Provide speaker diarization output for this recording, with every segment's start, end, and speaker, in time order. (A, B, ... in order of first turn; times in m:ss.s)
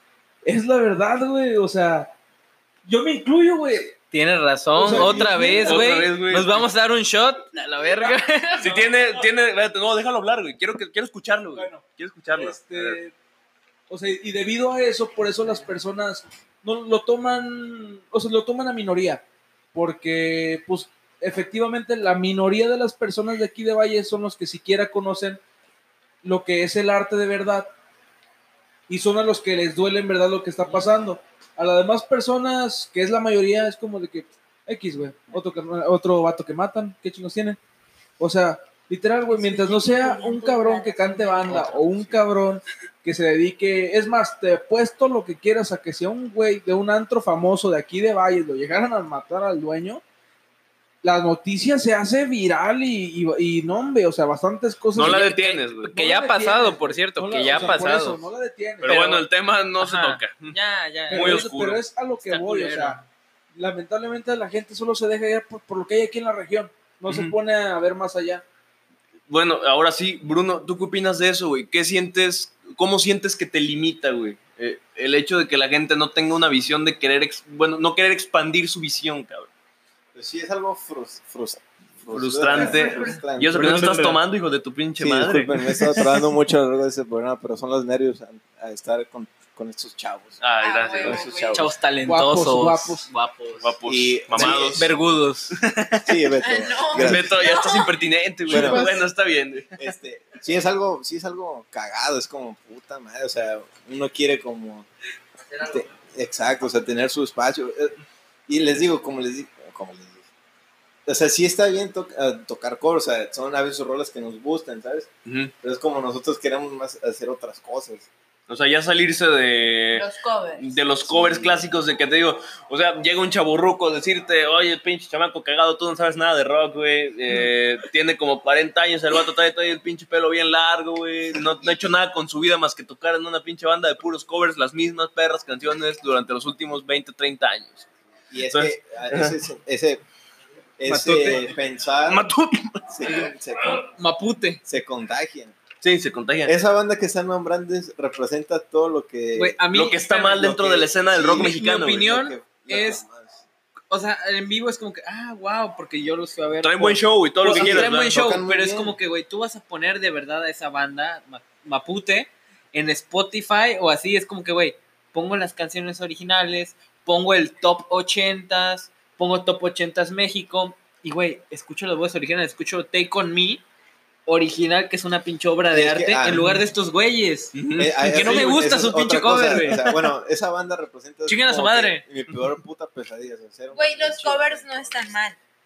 0:00.4-0:02.1 A
0:02.8-0:04.0 A
0:04.1-0:08.8 B
0:04.8-0:06.1 A
0:04.8-0:06.6 C
0:07.8-0:08.9 A
0:08.6-0:13.0 C
0:11.5-0:13.1 A
0:13.9-0:19.2 A
0:19.7-0:25.4 A
0:26.2-0:27.7 A
0:28.9-0:37.6 A
0:38.2-0:50.0 A
0:39.3-0:41.8 D
0:51.0-0:55.2 A
0:54.9-0:55.9 C
0:55.0-0:58.2 B
0:55.8-0:59.1 A
0:57.5-0:57.8 C
0:58.8-1:00.6 C
0:58.8-0:59.2 B
0:59.8-1:01.4 B
1:01.1-1:01.8 C
1:01.1-1:03.0 A
1:02.2-1:03.0 B
1:03.5-1:08.4 A
1:07.1-1:07.4 C
1:09.3-1:19.5 C
1:20.1-1:24.2 E
1:22.1-1:26.0 C
1:25.0-1:30.4 E
1:30.4-1:31.7 C
1:30.6-1:31.6 D
1:31.0-1:31.5 E
1:31.5-1:33.7 B
1:32.0-1:33.1 A
1:33.6-1:34.9 C
1:33.8-1:34.9 E
1:34.3-1:35.6 B
1:35.5-1:36.2 C
1:36.0-1:37.3 E
1:36.4-1:38.0 D
1:36.9-1:39.8 C
1:38.5-1:39.0 E
1:39.8-1:44.9 E
1:45.6-1:48.0 E
1:48.5-1:50.2 E
1:51.0-1:55.1 E
1:55.2-1:55.5 C
1:55.6-1:58.1 E
1:58.5-2:17.9 C
1:59.9-2:00.8 D
2:01.0-2:01.7 E
2:18.3-2:20.0 E
2:18.4-2:19.4 C
2:20.8-2:22.3 E
2:22.0-2:23.3 C
2:22.9-2:23.8 E
2:23.6-2:24.6 B
2:24.6-2:25.6 E
2:25.8-2:26.5 C
2:26.4-2:29.6 E
2:29.3-2:30.4 B
2:29.7-2:32.0 C
2:30.2-2:33.4 E
2:31.4-2:33.0 B
2:33.9-2:53.6 B
2:36.6-2:38.1 C
2:37.4-2:39.0 E
2:54.2-2:59.8 B
2:55.7-2:56.5 E
2:57.5-2:58.4 C
2:57.8-3:05.2 E
2:59.6-3:00.0 C
3:01.2-3:02.0 B
3:03.7-3:05.4 D